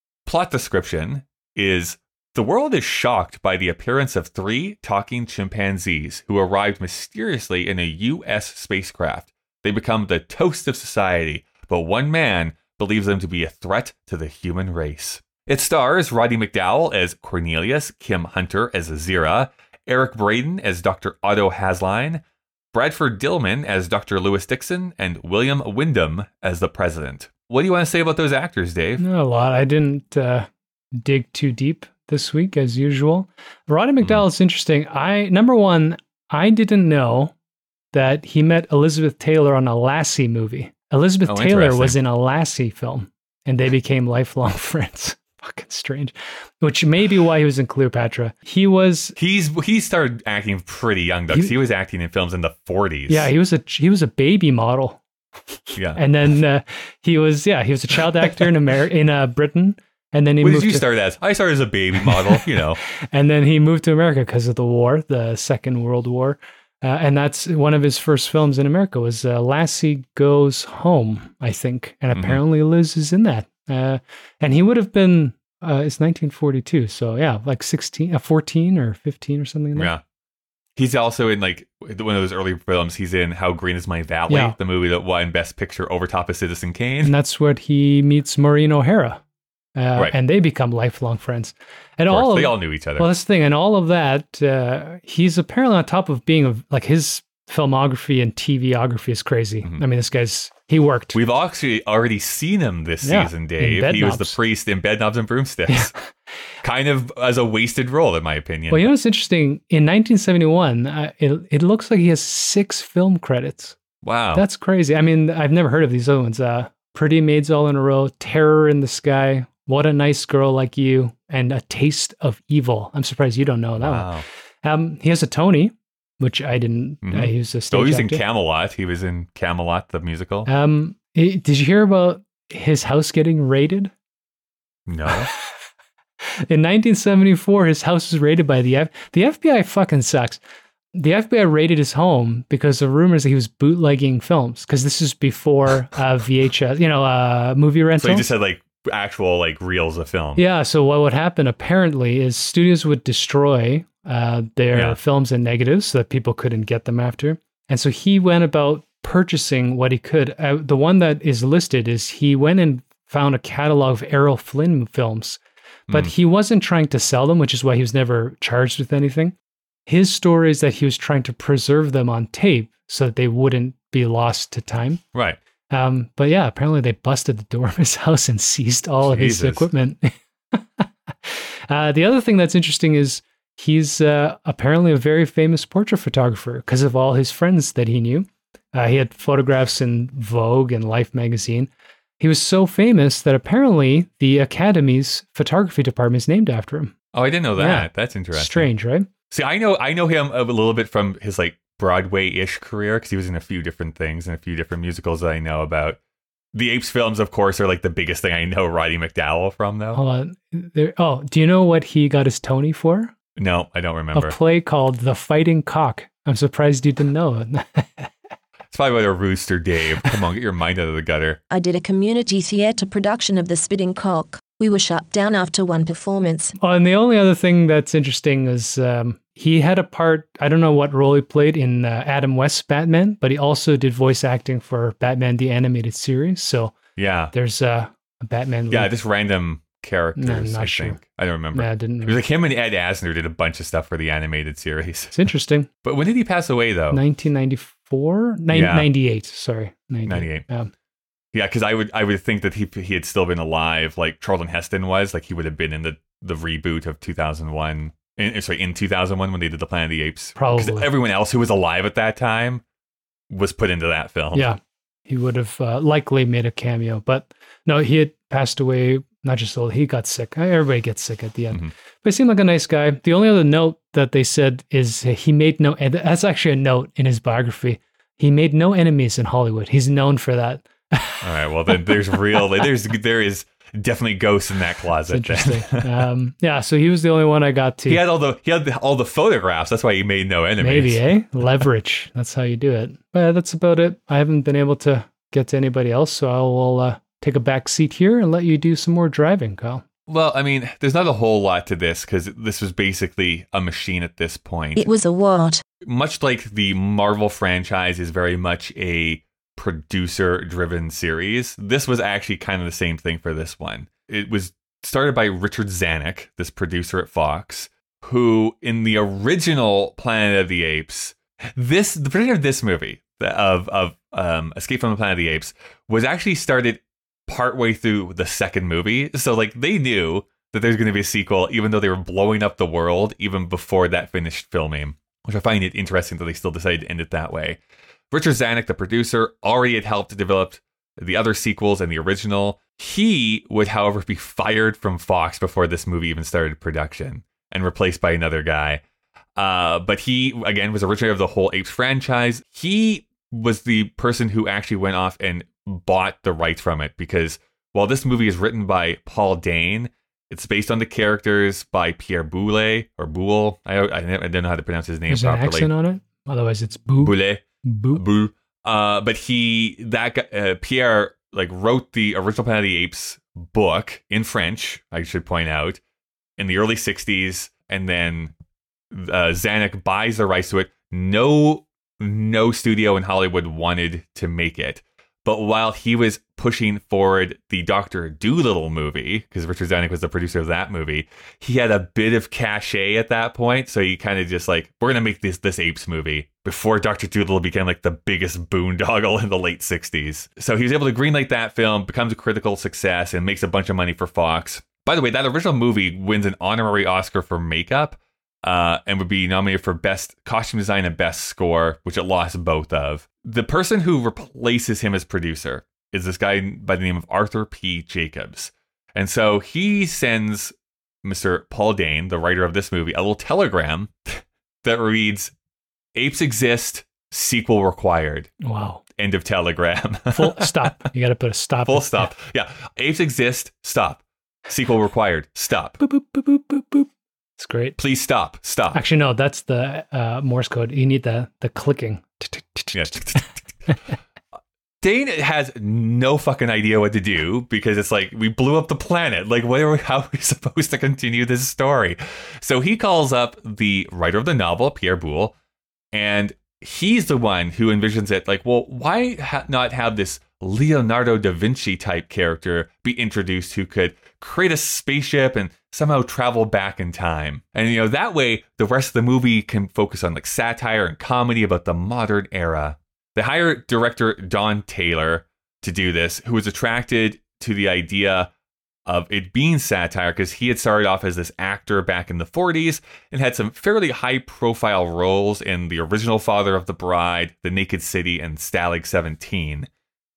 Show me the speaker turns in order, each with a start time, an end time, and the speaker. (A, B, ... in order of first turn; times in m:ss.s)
0:00.3-0:29.0 A
0:29.0-0:37.3 B
0:37.9-0:49.2 B
0:41.3-0:42.0 A
0:49.2-0:53.3 A
0:53.1-0:55.0 B
0:55.7-1:00.8 B
0:55.8-0:56.0 A
1:00.4-1:02.8 A
1:02.1-1:02.4 B
1:03.1-1:19.9 B
1:12.1-1:12.4 A
1:19.8-1:20.0 A
1:20.8-1:27.1 A
1:24.3-1:24.6 B
1:27.0-1:29.2 B
1:29.8-1:41.2 B
1:32.1-1:33.1 A
1:41.1-1:45.9 A
1:43.0-1:44.4 B
1:46.6-1:48.9 A
1:48.7-1:53.8 B
1:54.0-1:54.4 A
1:54.3-2:08.2 B
2:03.8-2:04.2 A
2:07.0-2:10.5 A
2:10.5-2:13.9 B
2:14.9-2:15.3 A
2:16.5-2:20.4 B
2:20.9-2:28.3 B
2:28.0-2:30.4 A
2:30.4-2:45.4 B
2:34.7-2:35.0 A
2:45.9-2:49.3 B
2:49.9-2:55.0 B
2:55.7-3:16.9 B
2:59.0-2:59.7 A
3:17.1-3:18.7 A
3:17.6-3:19.1 B
3:19.3-3:26.0 A
3:26.5-3:30.0 A
3:29.9-3:33.1 B
3:33.4-3:34.3 A
3:34.1-3:38.1 B
3:38.7-3:41.4 A
3:41.5-3:46.6 C
3:46.6-3:56.8 B
3:57.0-3:57.3 A
3:57.3-3:58.9 B
3:58.7-4:05.2 A
4:00.2-4:01.0 B
4:01.5-4:02.2 B
4:05.1-4:05.7 B
4:05.8-4:07.0 A
4:06.9-4:10.7 B
4:08.5-4:08.9 A
4:10.1-4:10.4 A
4:11.3-4:22.6 A
4:20.4-4:20.9 B
4:23.3-4:24.5 A
4:24.3-4:42.4 B
4:41.2-4:46.0 A
4:45.1-4:48.0 B
4:47.9-4:51.0 A
4:50.6-4:59.8 B
5:00.1-5:04.9 A
5:04.8-5:05.6 C
5:05.8-5:37.6 A
5:38.1-5:48.8 A
5:49.4-6:05.7 A
6:05.1-6:08.0 B
6:07.0-6:15.8 A
6:16.4-6:18.3 A
6:18.9-7:05.3 A
7:06.0-7:08.3 A
7:08.4-7:08.8 B
7:09.0-7:10.4 A
7:10.1-7:12.1 B
7:11.6-7:15.8 A
7:15.8-7:17.8 B
7:17.8-7:18.8 A
7:18.7-7:23.8 B
7:22.7-7:23.5 A
7:24.8-7:35.3 A
7:35.9-7:58.3 A
7:58.9-8:09.7 A